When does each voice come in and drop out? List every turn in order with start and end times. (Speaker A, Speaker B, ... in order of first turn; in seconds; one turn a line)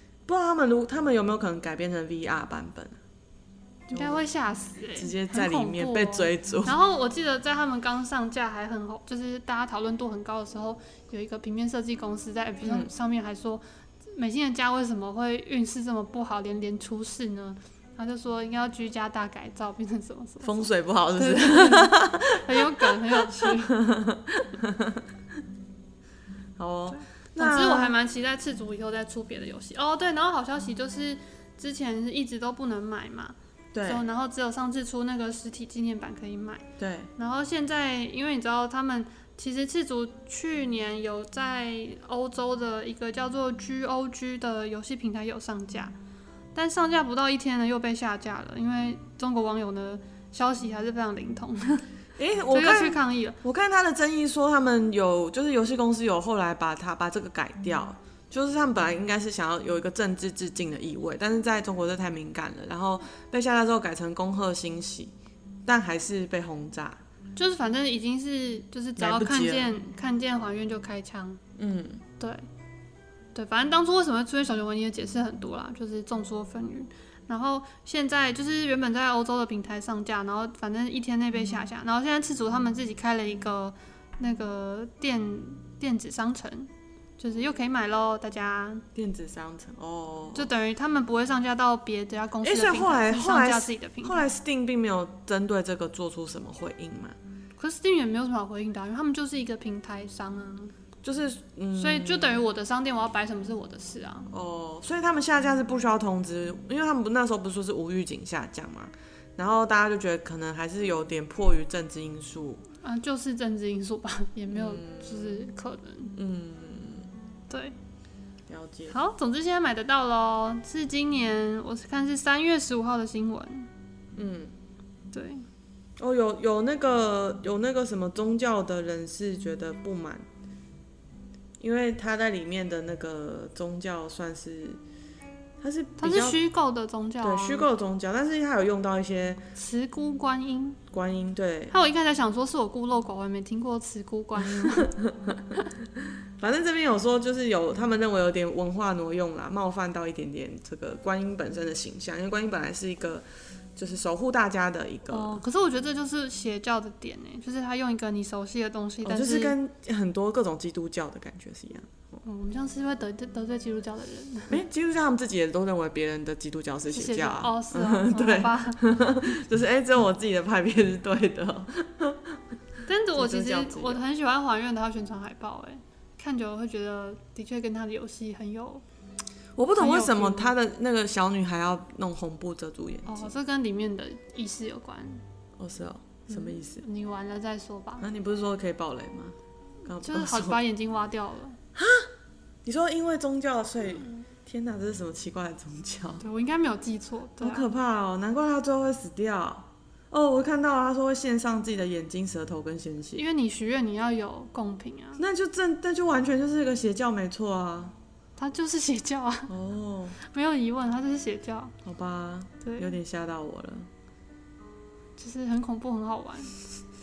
Speaker A: 0.3-3.0
Speaker B: 3.9-23.8
Speaker A: 3.9-4.2
Speaker A: 4.9-6.8
Speaker A: 12.6-12.9
Speaker A: 20.4-25.0
Speaker A: 26.6-27.9
Speaker B: 26.9-36.6
Speaker A: 33.7-34.0
Speaker A: 36.8-37.1
Speaker B: 37.2-45.9
Speaker B: 46.5-51.9
Speaker A: 52.2-65.1
Speaker B: 52.5-53.4
Speaker A: 65.7-67.0
Speaker B: 67.4-71.4
Speaker A: 69.0-69.8
Speaker A: 71.6-72.0
Speaker B: 73.3-88.8
Speaker A: 89.0-90.5
Speaker B: 90.3-94.2
Speaker A: 92.4-97.2
Speaker B: 97.6-100.7
Speaker A: 101.0-102.4
Speaker B: 101.8-104.3
Speaker A: 104.3-112.6
Speaker B: 112.8-116.2
Speaker A: 114.5-115.5
Speaker A: 116.2-117.1
Speaker B: 117.5-117.8
Speaker A: 118.5-119.0
Speaker B: 118.9-123.7
Speaker A: 124.2-124.5
Speaker B: 125.1-125.5
Speaker A: 126.0-130.2
Speaker A: 131.6-134.8
Speaker A: 135.6-136.4
Speaker B: 136.0-137.7
Speaker A: 137.2-139.4
Speaker B: 139.6-140.8
Speaker A: 140.9-141.8
Speaker B: 141.7-144.9
Speaker A: 144.7-145.4
Speaker A: 146.4-153.2
Speaker A: 153.8-155.4
Speaker B: 155.1-159.6
Speaker A: 159.0-162.2
Speaker B: 162.2-164.6
Speaker A: 164.5-172.4
Speaker B: 166.9-168.9
Speaker B: 172.9-178.8
Speaker A: 173.1-174.0
Speaker A: 179.6-183.3
Speaker B: 179.8-180.5
Speaker B: 183.1-185.2
Speaker A: 185.6-186.8
Speaker B: 186.3-188.1
Speaker A: 188.0-190.6
Speaker B: 190.0-191.6
Speaker A: 191.8-192.1
Speaker A: 192.7-196.2
Speaker B: 196.2-197.7
Speaker A: 197.4-203.2
Speaker B: 203.2-205.2
Speaker A: 205.2-207.9
Speaker B: 208.4-209.5
Speaker A: 209.5-210.2
Speaker B: 210.2-211.7
Speaker A: 211.8-213.9
Speaker B: 212.6-213.0
Speaker B: 215.2-216.6